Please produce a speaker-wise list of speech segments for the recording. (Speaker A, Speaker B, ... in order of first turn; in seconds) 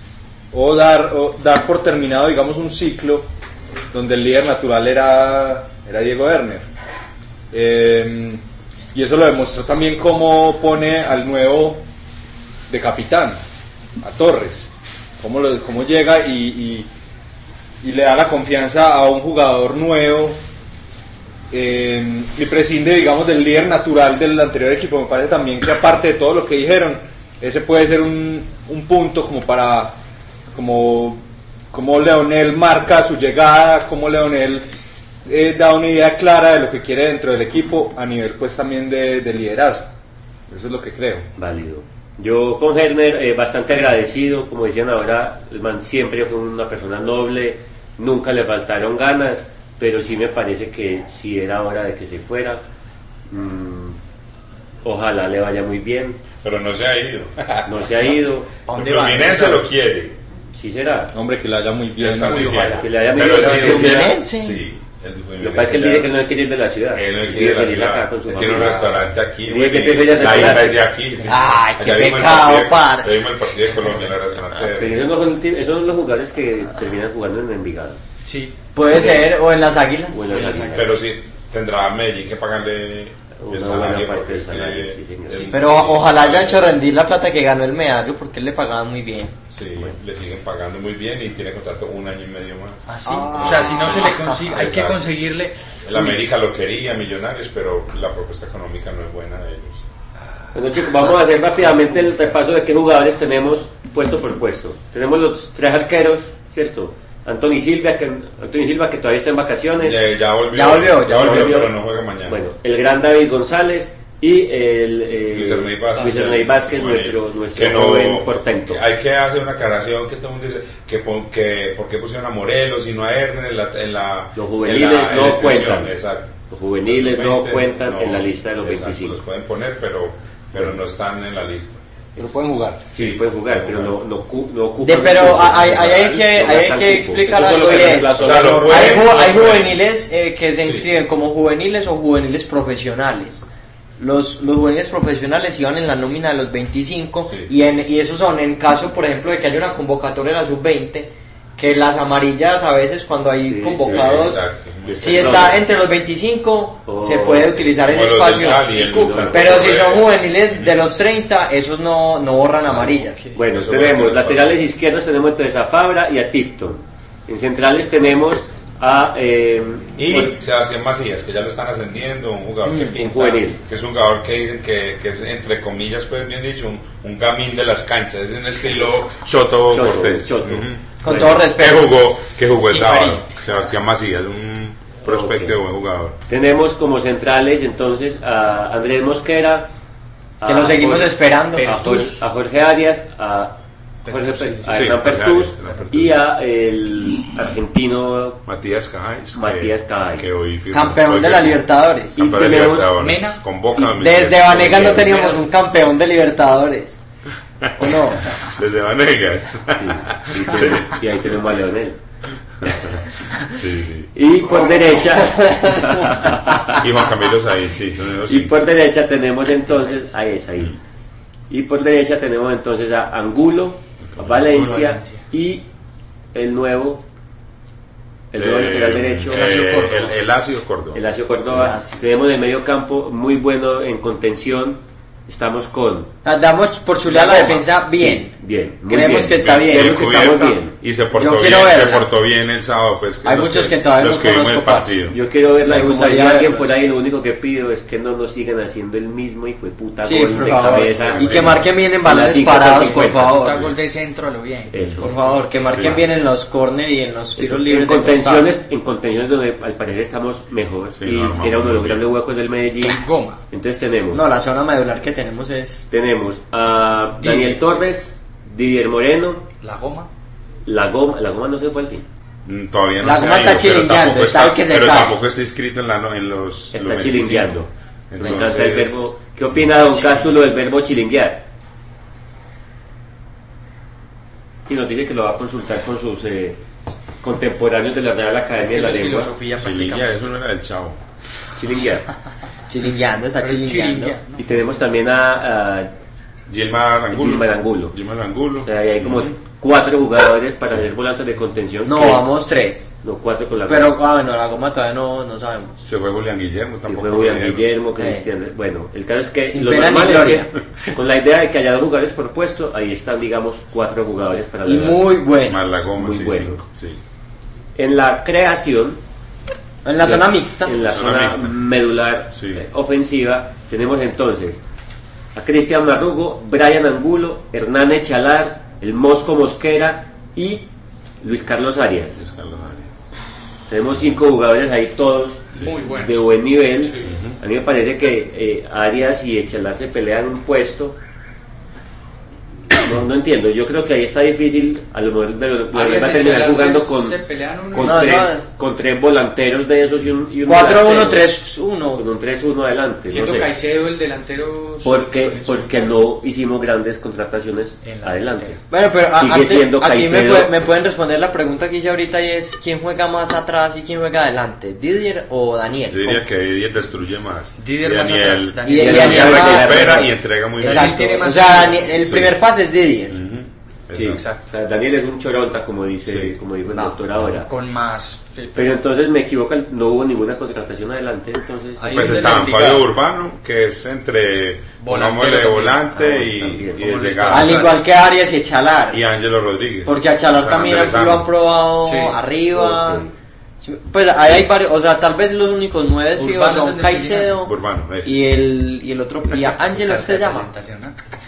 Speaker A: 0.5-3.3, 3.9-6.7, 7.5-8.4, 8.9-11.8, 12.7-13.4, 14.0-16.9, 17.8-20.4, 21.5-30.0, 30.5-34.7, 35.3-39.9, 40.5-41.3, 61.1-62.6, 132.2-132.8, 137.2-139.1, 382.1-382.7
Speaker B: 41.4-52.6, 53.3-54.0, 54.9-56.2, 57.7-58.5, 60.5-61.1, 62.5-64.1, 65.4-68.9, 69.5-70.8, 74.8-78.0, 80.1-81.0, 83.4-85.6, 100.5-110.0, 111.0-111.7, 112.3-118.8, 124.4-126.0, 126.5-129.2, 132.9-139.2, 153.4-155.7, 156.9-157.6, 159.1-159.8, 163.3-170.3, 173.0-173.6, 179.7-181.5, 185.1-185.6, 186.3-189.7, 190.4-198.4, 199.3-200.3, 202.2-202.9, 204.5-205.3, 209.8-212.0, 214.1-216.8, 218.3-220.8, 221.5-225.7, 226.3-227.0, 228.3-229.5, 230.9-236.1, 237.1-240.8, 245.1-253.5, 254.7-256.1, 257.4-264.2, 265.9-269.5, 270.7-272.1, 276.7-281.4, 284.6-286.6, 287.2-289.4, 291.6-292.1, 294.4-295.9, 297.1-298.0, 298.6-302.3, 303.0-304.0, 306.9-315.1, 315.9-316.6, 317.8-319.0, 320.0-324.6, 325.4-330.7, 331.2-332.2, 333.7-340.9, 342.8-347.2, 347.7-351.3, 351.9-353.5, 354.8-360.5, 368.7-370.1, 373.9-377.5, 378.6-382.1, 385.9-386.9, 392.5-393.1
Speaker C: 56.4-58.0, 58.7-60.2, 62.0-66.1, 66.9-75.1, 80.7-86.8, 89.5-95.1, 95.8-99.8, 109.8-112.4, 115.3-131.8, 132.9-133.9, 138.1-139.8, 147.3-147.5, 153.8-155.6, 157.8-160.8, 162.7-164.6, 170.0-186.2, 194.7-196.2, 198.4-205.3, 207.6-211.0, 212.6-214.1, 216.8-218.6, 224.1-224.6, 228.4-231.0, 239.4-245.2, 250.3-251.7, 254.8-255.1, 255.7-256.1, 261.0-262.1, 272.4-279.6, 289.6-291.0, 296.5-299.4, 305.9-307.7, 315.4-317.0, 320.9-321.6, 322.3-322.6, 332.2-333.1, 337.0-337.4, 365.9-371.3, 372.0-372.4, 373.1-374.2, 376.1-376.3, 381.9-387.7, 388.9-391.3, 394.2-394.5, 397.4-398.2
Speaker D: 58.7-59.7, 62.2-64.0, 78.2-78.5, 80.3-80.9, 92.9-96.2, 182.8-183.2, 191.6-192.2, 194.1-195.0, 195.6-195.9, 202.9-203.4, 224.5-225.3, 229.3-230.2, 253.1-254.7, 255.2-255.9, 262.8-263.4, 267.2-267.6, 269.6-270.1, 288.6-290.1, 293.4-294.6, 335.6-336.2, 345.7-348.2, 353.1-356.0, 357.8-358.6, 367.6-369.7, 370.6-371.9, 374.1-374.5, 376.7-378.8, 381.8-382.8, 384.8-385.9, 386.8-387.8, 391.9-392.2, 396.2-397.4, 399.3-401.0
Speaker E: 63.3-64.6, 71.2-73.2, 78.8-80.8, 85.5-89.4, 93.1-94.6, 110.5-111.7, 134.8-143.4, 144.0-154.4, 155.0-163.2, 172.7-172.9, 181.0-181.9, 190.4-191.7, 200.7-202.2, 203.8-207.0, 207.8-208.3, 215.2-216.1, 231.5-232.0, 236.2-238.3, 238.8-240.1, 241.1-242.1, 243.2-245.0, 245.6-246.7, 250.0-253.7, 255.0-258.5, 264.1-265.9, 273.0-275.2, 278.2-278.5, 292.7-294.2, 301.9-302.9, 303.7-305.8, 308.0-308.3, 309.5-310.5, 314.6-315.6, 319.8-320.9, 347.8-348.4, 350.4-352.0, 358.7-366.2, 368.6-373.2, 387.3-389.0, 389.9-393.0, 393.6-400.5